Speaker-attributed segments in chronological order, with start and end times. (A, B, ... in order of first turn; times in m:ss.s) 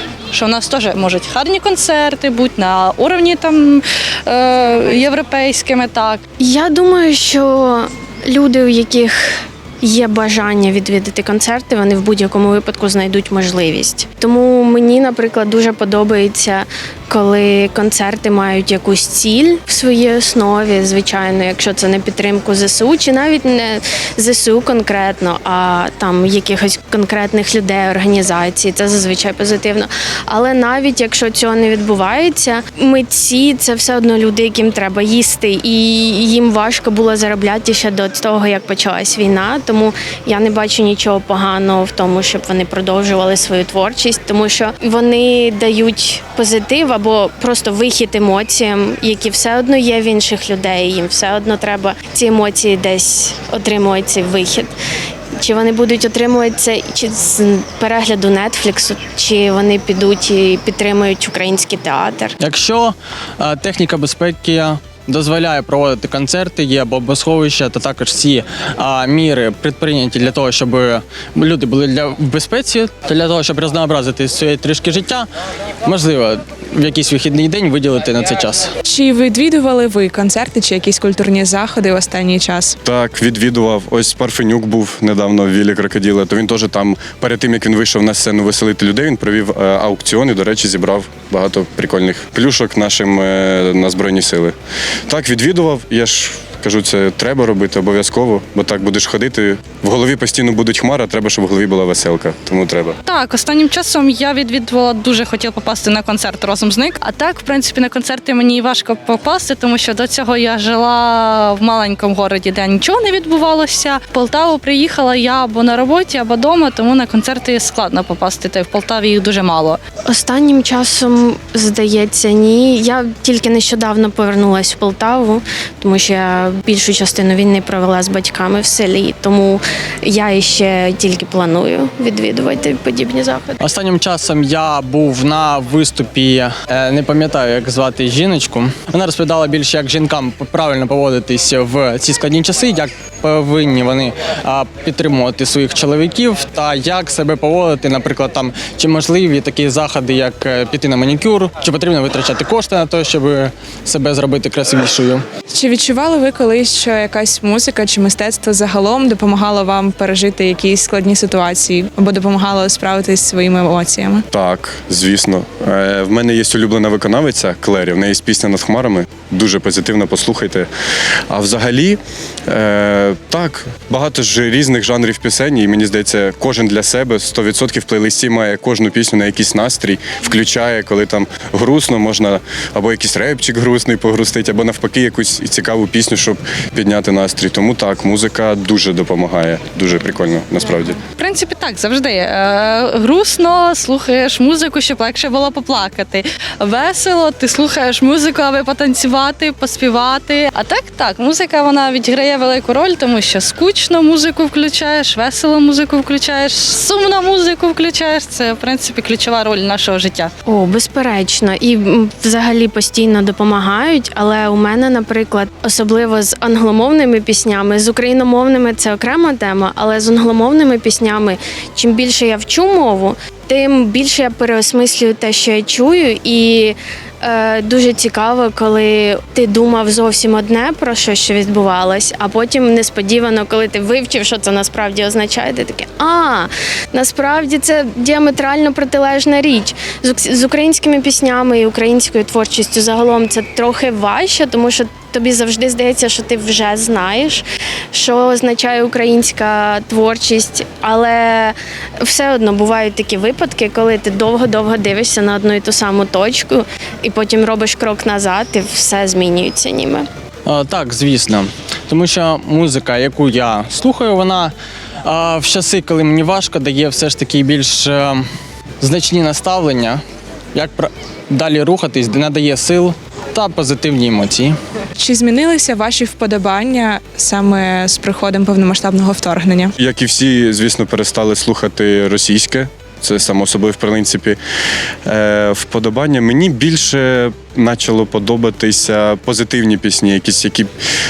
0:00.3-0:06.2 A
0:06.4-0:54.7 B
0:55.4-1:02.4 B
1:02.4-1:15.3 C
1:15.8-1:18.7 C
1:18.8-1:22.8 D
1:22.8-1:34.6 E
1:35.1-1:43.0 E
1:43.1-1:59.8 A
2:00.1-2:13.6 B
2:13.6-2:35.2 C
2:35.5-2:44.3 D
2:44.3-2:50.7 E
2:51.3-3:11.0 E
3:11.2-3:30.3 A
3:30.4-4:20.1 B
4:20.5-4:24.5 C
4:25.0-4:28.2 C
4:28.8-4:30.0 C
4:30.5-4:34.6 C
4:35.0-4:39.8 D
4:39.8-4:44.4 E
4:45.0-4:50.7 E